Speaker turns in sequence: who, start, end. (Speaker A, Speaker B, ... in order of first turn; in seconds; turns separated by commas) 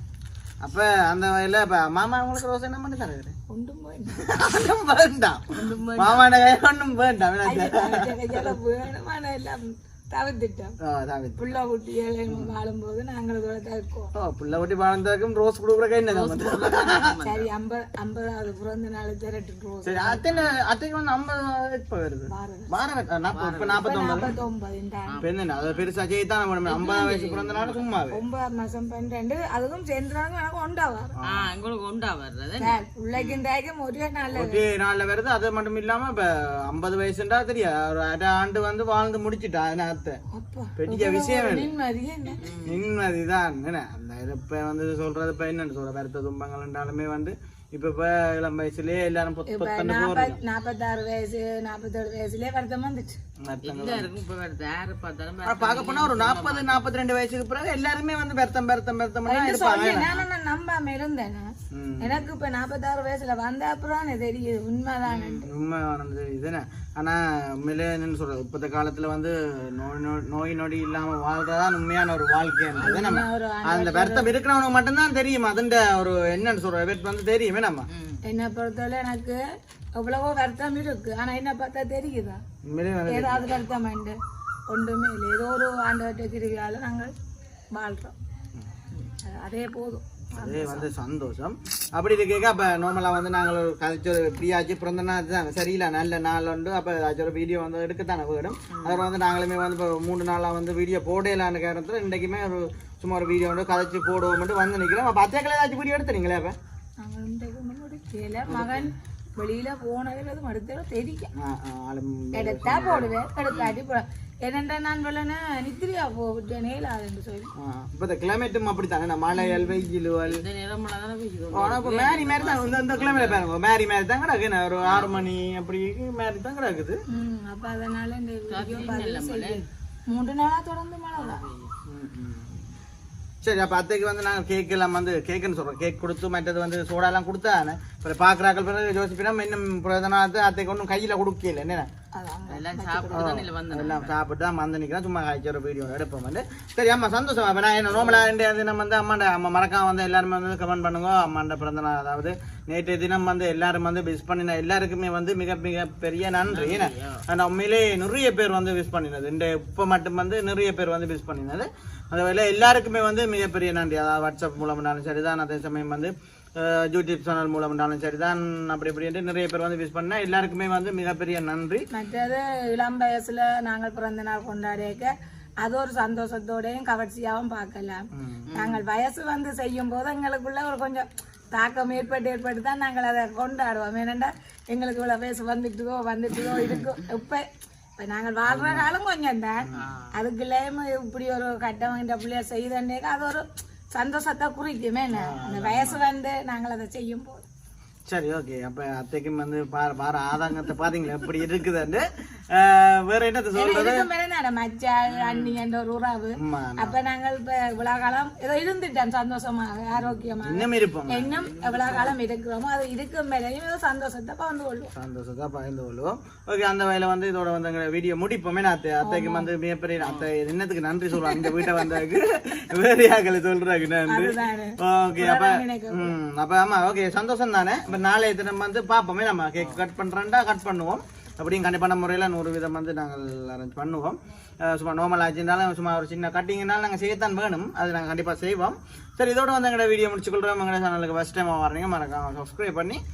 Speaker A: 0.6-3.3, Speaker B: 3.5-4.2, Speaker A: 4.2-8.5, Speaker C: 5.5-6.3, Speaker B: 7.4-10.8, Speaker A: 10.8-11.6, Speaker B: 11.4-14.1, Speaker A: 12.3-12.5, Speaker A: 14.2-17.1, Speaker C: 16.1-17.5, Speaker B: 17.2-20.3, Speaker A: 19.8-24.3, Speaker C: 20.3-20.6, Speaker B: 22.3-22.8, Speaker C: 23.3-23.8, Speaker B: 23.7-25.2, Speaker C: 25.1-25.9, Speaker A: 25.2-28.2, Speaker C: 26.6-27.9, Speaker B: 28.1-31.1, Speaker A: 31.2-31.4, Speaker C: 31.2-33.4, Speaker B: 32.6-34.6, Speaker A: 34.3-40.2, Speaker B: 40.3-42.4, Speaker A: 40.8-41.7, Speaker C: 42.4-42.8, Speaker A: 42.6-50.4, Speaker B: 49.5-53.2, Speaker A: 53.4-54.1, Speaker C: 53.6-56.9, Speaker A: 55.4-60.2, Speaker B: 59.2-65.5, Speaker A: 61.7-62.3, Speaker C: 65.0-65.4, Speaker A: 65.5-77.9, Speaker B: 72.8-74.3, Speaker C: 77.9-78.2, Speaker B: 78.2-79.4, Speaker B: 80.0-82.4, Speaker A: 82.7-83.6, Speaker B: 83.1-84.2, Speaker B: 84.7-87.1, Speaker B: 87.7-88.1, Speaker B: 89.2-90.9, Speaker A: 90.3-106.5, Speaker C: 98.7-99.0, Speaker B: 107.0-111.3, Speaker A: 108.5-108.8, Speaker A: 111.3-113.1, Speaker B: 112.3-117.5, Speaker C: 113.5-113.8, Speaker A: 117.6-120.4, Speaker B: 119.3-119.8, Speaker C: 120.2-123.5, Speaker A: 121.5-127.0, Speaker C: 124.8-125.3, Speaker B: 127.1-131.4, Speaker C: 128.5-129.6, Speaker C: 131.2-131.7, Speaker A: 131.9-132.5, Speaker A: 133.4-141.9, Speaker B: 142.1-143.3, Speaker C: 142.5-144.1, Speaker A: 143.1-171.8, Speaker C: 147.9-148.3, Speaker C: 156.4-157.2, Speaker B: 171.9-187.4, Speaker A: 178.1-178.5, Speaker C: 178.5-178.8, Speaker B: 188.0-197.4, Speaker A: 188.5-188.9, Speaker C: 189.7-190.2, Speaker A: 195.1-196.0, Speaker A: 198.1-204.1, Speaker B: 203.6-214.9, Speaker C: 205.1-205.6, Speaker A: 206.4-207.0, Speaker A: 209.9-211.3, Speaker C: 211.2-212.2, Speaker A: 214.9-243.0, Speaker B: 219.0-219.5, Speaker C: 220.0-220.3, Speaker B: 221.1-222.0, Speaker B: 224.1-226.2